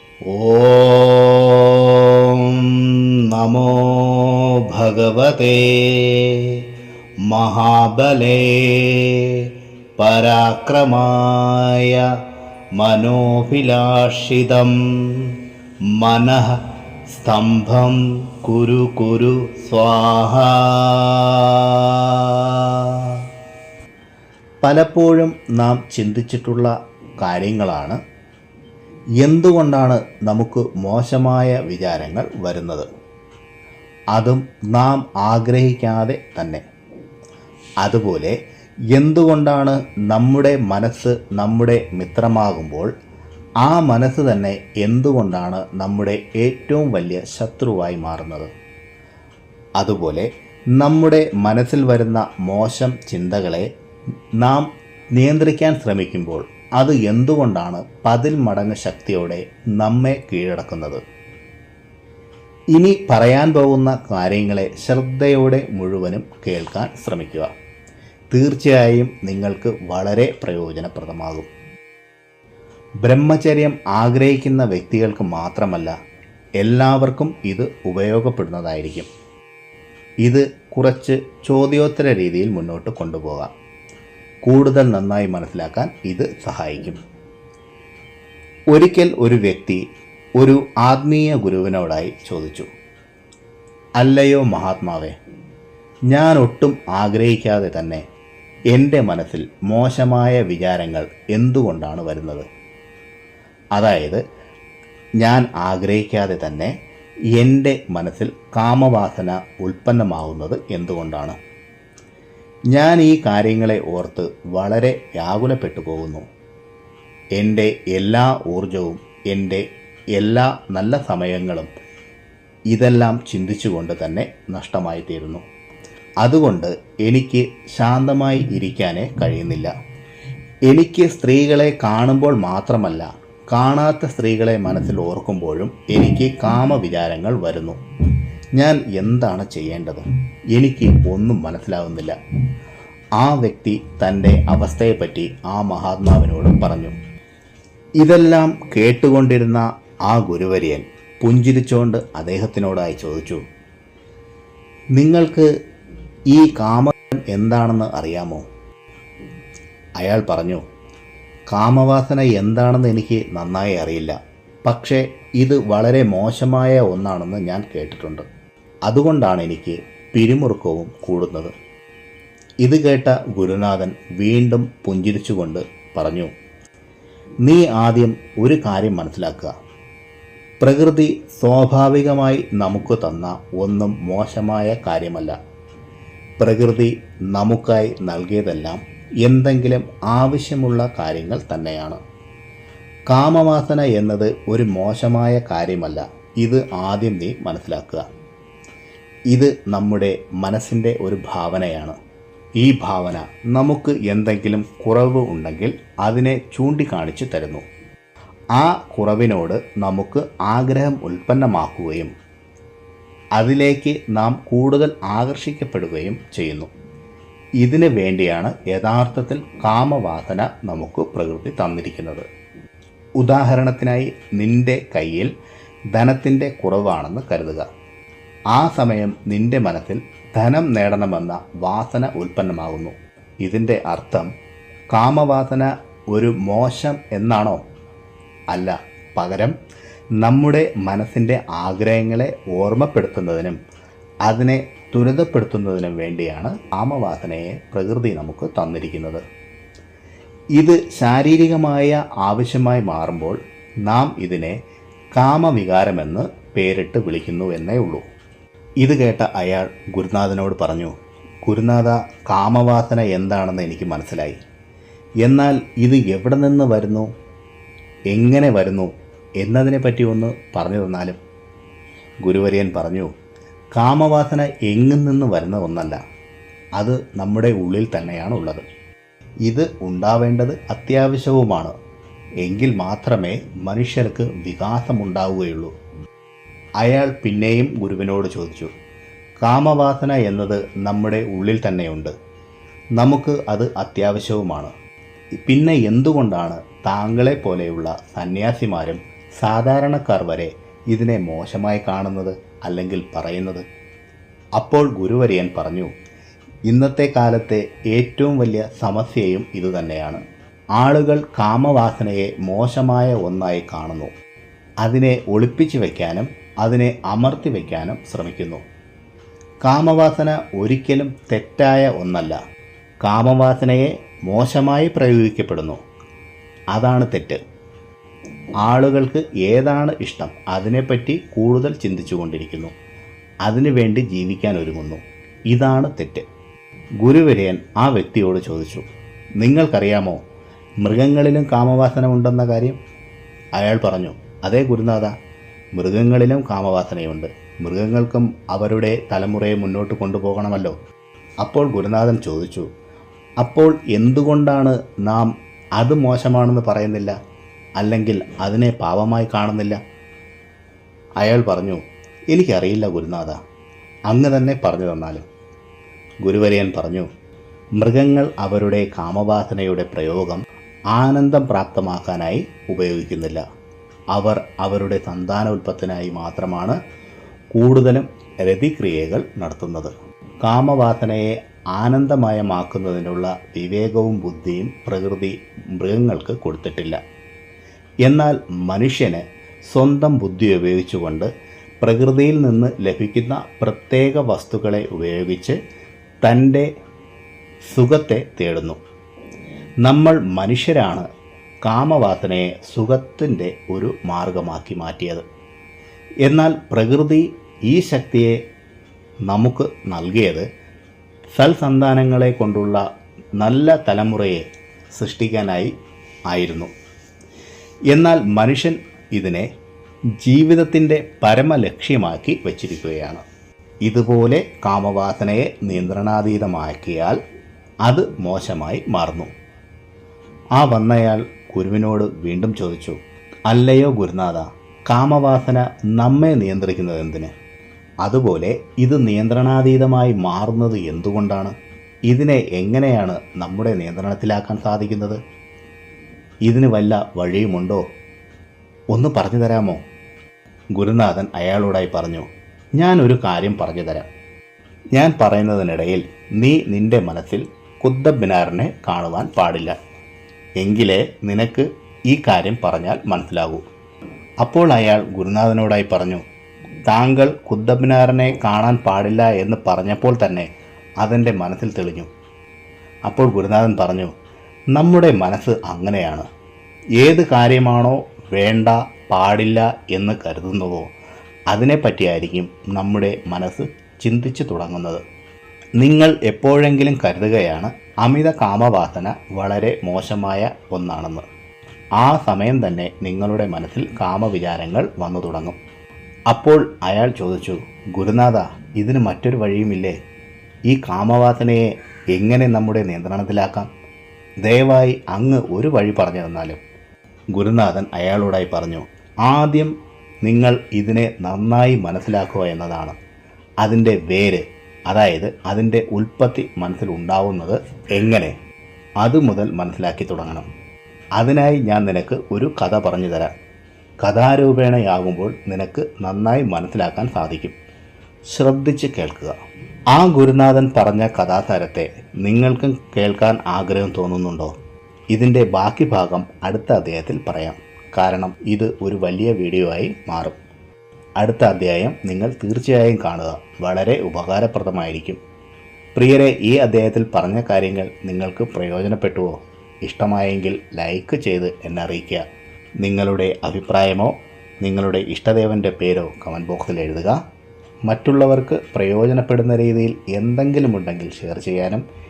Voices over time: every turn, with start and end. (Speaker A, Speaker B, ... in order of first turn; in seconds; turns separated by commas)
Speaker A: 0.3-6.7, Speaker A: 7.2-12.2, Speaker A: 12.7-23.2, Speaker A: 24.6-28.0, Speaker A: 29.2-32.9, Speaker A: 34.1-36.6, Speaker A: 37.8-38.4, Speaker A: 38.9-42.9, Speaker A: 43.6-48.5, Speaker A: 49.8-53.7, Speaker A: 54.4-61.0, Speaker A: 62.7-67.5, Speaker A: 68.3-71.5, Speaker A: 73.0-75.9, Speaker A: 76.6-79.1, Speaker A: 80.2-83.5, Speaker A: 84.4-87.0, Speaker A: 88.7-89.8, Speaker A: 90.4-92.7, Speaker A: 94.0-95.2, Speaker A: 96.1-98.0, Speaker A: 98.7-102.5, Speaker A: 103.7-104.2, Speaker A: 105.2-106.7, Speaker A: 107.3-111.4, Speaker A: 112.7-116.3, Speaker A: 117.4-121.7, Speaker A: 122.7-125.4, Speaker A: 126.2-129.7, Speaker A: 130.7-137.8, Speaker A: 138.6-142.2, Speaker A: 143.2-146.9, Speaker A: 148.0-153.4, Speaker A: 154.9-155.5, Speaker A: 156.3-158.4, Speaker A: 160.0-160.6, Speaker A: 161.5-168.3, Speaker A: 168.9-171.5, Speaker A: 172.6-176.3, Speaker A: 177.4-179.5, Speaker A: 180.6-185.4, Speaker A: 186.4-192.0, Speaker A: 193.1-198.1, Speaker A: 199.3-202.0, Speaker A: 202.6-207.6, Speaker A: 208.6-212.1, Speaker A: 213.4-216.7, Speaker A: 217.6-222.2, Speaker A: 223.2-225.3, Speaker A: 225.9-227.7, Speaker A: 228.5-234.3, Speaker A: 234.9-237.6, Speaker A: 238.5-239.6, Speaker A: 240.2-243.6, Speaker A: 244.2-249.2, Speaker A: 250.6-254.6, Speaker A: 255.2-258.0, Speaker A: 258.8-264.4, Speaker A: 265.2-267.1, Speaker A: 268.1-271.2, Speaker A: 272.2-273.1, Speaker A: 273.7-276.0, Speaker A: 276.8-278.6, Speaker A: 279.4-281.7, Speaker A: 282.4-285.7, Speaker A: 286.8-288.7, Speaker A: 289.4-292.1, Speaker A: 293.0-294.7, Speaker A: 295.4-303.6, Speaker A: 304.6-305.9, Speaker A: 306.6-310.2, Speaker A: 310.8-314.1, Speaker A: 314.8-318.6, Speaker A: 319.6-322.4, Speaker A: 323.0-325.8, Speaker A: 326.7-327.4, Speaker A: 328.6-332.7, Speaker A: 333.4-336.3, Speaker A: 337.0-338.9, Speaker A: 339.4-340.2, Speaker A: 340.8-342.8, Speaker A: 343.6-345.1, Speaker A: 345.7-350.8, Speaker A: 351.4-352.7, Speaker A: 353.4-357.1, Speaker A: 357.8-359.8, Speaker A: 361.2-363.4, Speaker A: 364.1-365.2, Speaker A: 366.2-367.1, Speaker A: 367.8-373.4, Speaker A: 374.1-376.8, Speaker A: 377.5-387.0, Speaker A: 388.0-391.3, Speaker A: 391.8-395.6, Speaker A: 396.2-396.7, Speaker A: 397.7-398.8, Speaker A: 399.8-401.1, Speaker A: 401.6-405.2, Speaker A: 406.2-408.4, Speaker A: 409.3-410.5, Speaker A: 411.3-412.8, Speaker A: 413.4-415.7, Speaker A: 416.3-416.7, Speaker A: 417.9-419.5, Speaker A: 420.2-423.2, Speaker A: 423.8-427.2, Speaker A: 427.8-429.3, Speaker A: 430.6-437.3, Speaker A: 438.0-441.5, Speaker A: 442.1-445.2, Speaker A: 446.4-447.8, Speaker A: 448.9-449.8, Speaker A: 450.7-454.1, Speaker A: 454.9-459.8, Speaker A: 460.6-463.6, Speaker A: 464.4-466.2, Speaker A: 466.9-470.5, Speaker A: 471.0-472.1, Speaker A: 473.1-474.1, Speaker A: 474.7-476.2, Speaker A: 477.0-480.9, Speaker A: 481.5-485.0, Speaker A: 485.8-491.2, Speaker A: 492.0-495.6, Speaker A: 496.3-500.0, Speaker A: 500.7-503.7, Speaker A: 504.4-506.6, Speaker A: 507.3-513.0, Speaker A: 513.6-518.4, Speaker A: 519.0-520.5, Speaker A: 521.2-523.3, Speaker A: 524.0-527.5, Speaker A: 528.2-529.4, Speaker A: 529.9-534.5, Speaker A: 535.1-540.4, Speaker A: 541.2-545.2, Speaker A: 545.9-552.2, Speaker A: 552.8-557.2, Speaker A: 557.9-561.8